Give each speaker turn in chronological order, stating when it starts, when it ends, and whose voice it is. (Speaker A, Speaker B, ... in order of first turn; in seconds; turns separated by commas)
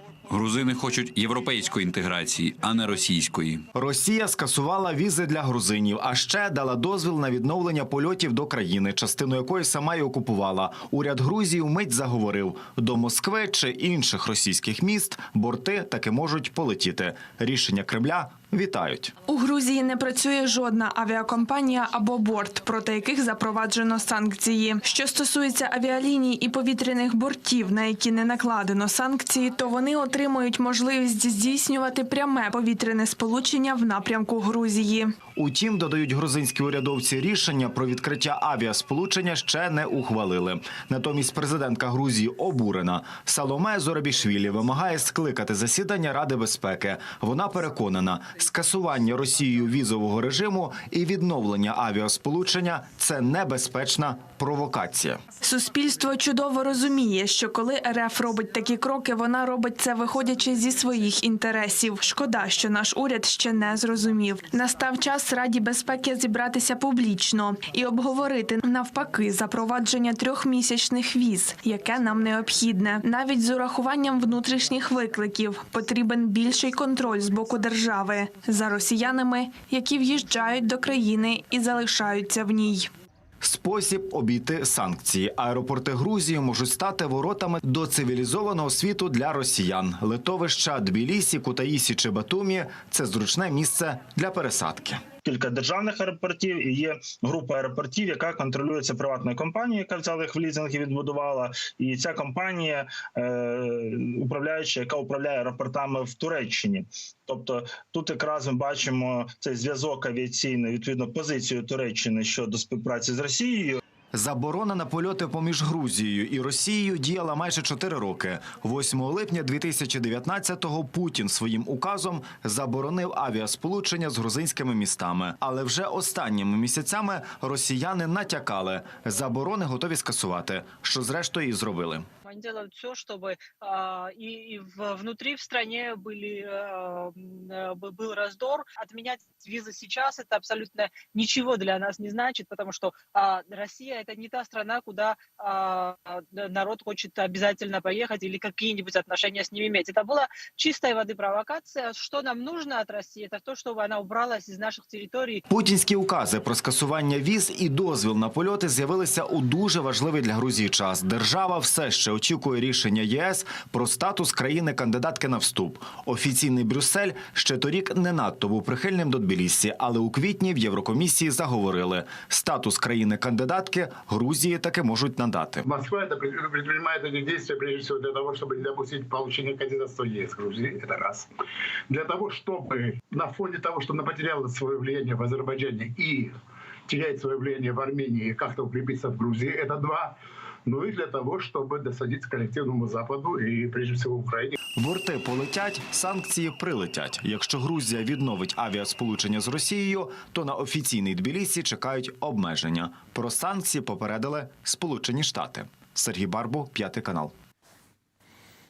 Speaker A: 0.3-3.7, Speaker B: 3.7-19.1, Speaker C: 19.3-35.1, Speaker B: 35.4-55.2, Speaker C: 55.4-82.9, Speaker B: 83.4-95.0, Speaker D: 95.2-113.8, Speaker B: 114.1-132.1, Speaker E: 132.2-155.4, Speaker B: 155.5-175.7, Speaker F: 175.6-181.3, Speaker F: 181.9-186.3, Speaker F: 186.9-190.2, Speaker F: 190.7-194.6, Speaker B: 194.8-207.3